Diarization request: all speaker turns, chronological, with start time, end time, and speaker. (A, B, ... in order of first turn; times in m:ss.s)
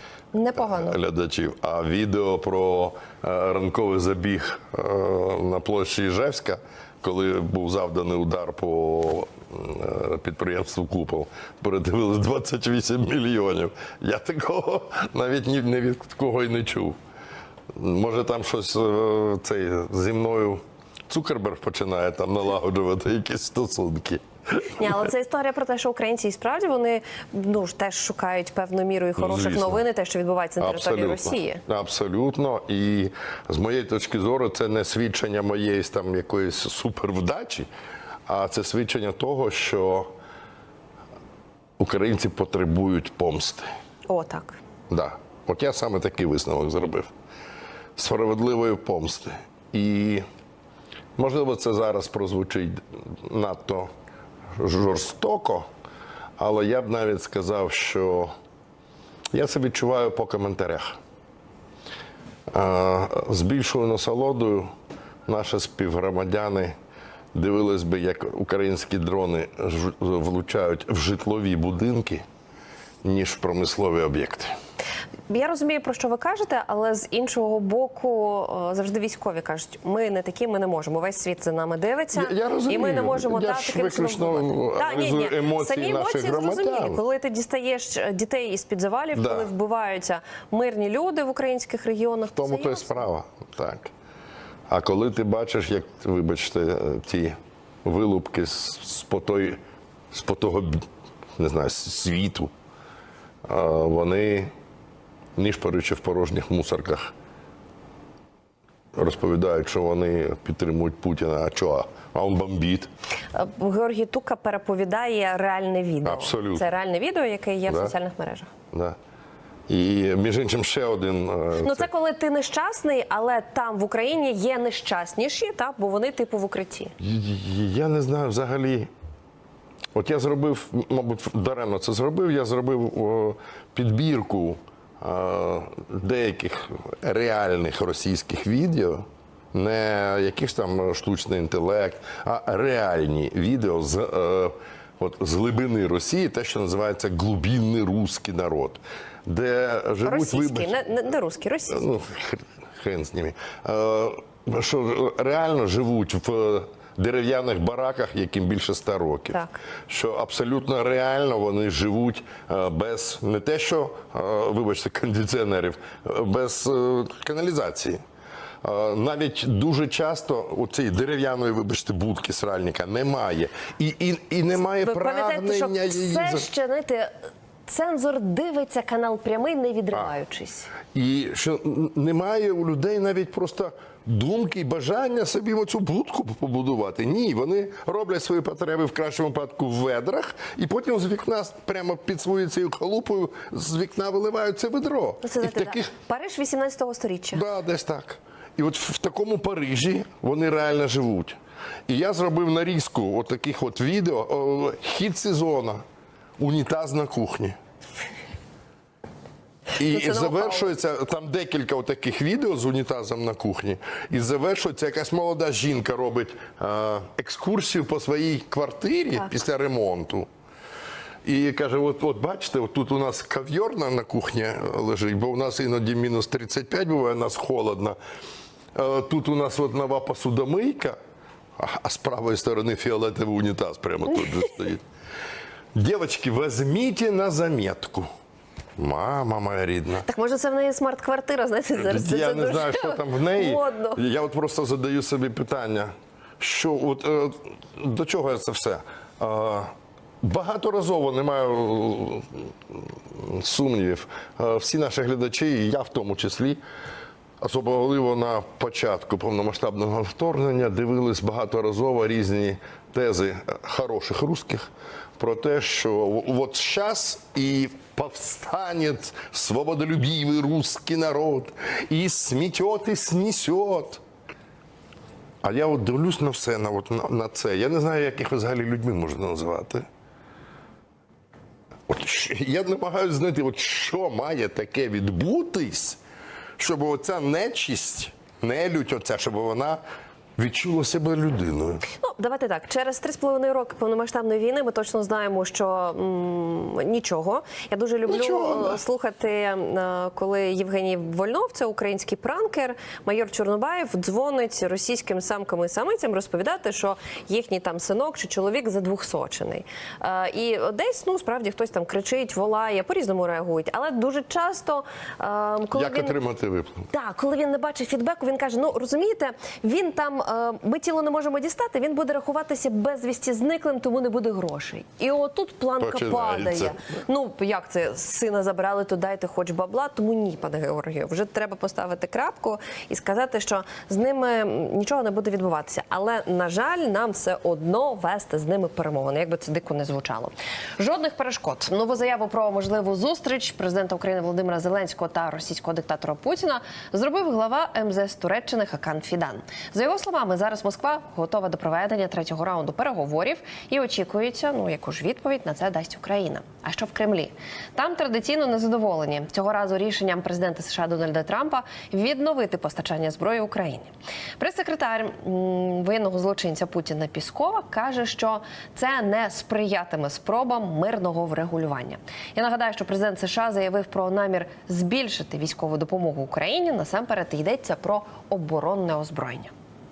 0:00.3-0:01.0 A
0:00.6-0:17.0 B
0:17.8-0:25.1 B
0:24.8-0:31.6 A
0:29.2-0:29.8 B
0:30.6-0:37.7 B
0:38.3-0:40.1 B
0:41.8-0:43.7 B
0:44.1-0:44.6 A
0:44.9-0:47.1 B
0:48.0-0:50.2 B
0:51.2-0:53.9 B
0:54.6-0:55.7 B
0:56.4-0:58.3 B
0:59.3-1:01.0 B
1:02.5-1:04.7 B
1:05.3-1:06.8 B
1:07.3-1:12.2 B
1:13.0-1:14.5 B
1:15.3-1:33.0 A
1:22.1-1:27.0 B
1:29.2-1:29.5 B
1:32.4-1:33.9 B
1:34.7-1:39.6 B
1:40.1-1:40.9 B
1:41.4-1:42.5 B
1:43.5-1:44.5 B
1:45.4-1:47.1 B
1:49.0-1:52.9 B
1:53.3-1:58.5 A
1:56.0-1:56.6 B
1:57.7-1:57.9 B
1:59.7-2:01.9 B
2:01.6-2:07.0 A
2:07.0-2:08.9 B
2:10.0-2:30.8 B
2:30.0-2:31.9 A
2:31.7-2:48.0 B
2:48.6-2:56.5 B
2:54.6-2:57.1 A
2:57.7-3:00.7 A
3:00.9-3:15.9 B
3:15.2-3:17.4 A
3:17.3-3:21.4 B
3:21.9-3:25.8 B
3:26.4-3:27.6 B
3:29.8-3:40.3 B
3:29.9-3:30.7 A
3:41.2-3:48.0 B
3:48.8-3:51.0 B
3:51.6-3:54.8 B
3:55.8-3:58.1 B
3:58.8-4:00.1 B
4:00.0-4:04.0 A
4:01.8-4:09.7 B
4:10.2-4:16.6 B
4:17.4-4:34.0 B
4:35.4-4:39.9 B
4:41.9-4:46.0 B
4:46.6-4:49.8 B
4:50.4-4:51.8 B
4:51.9-5:16.2 A
4:58.1-4:58.8 B
5:15.8-5:16.9 B
5:16.9-6:19.5 A
5:25.8-5:26.8 B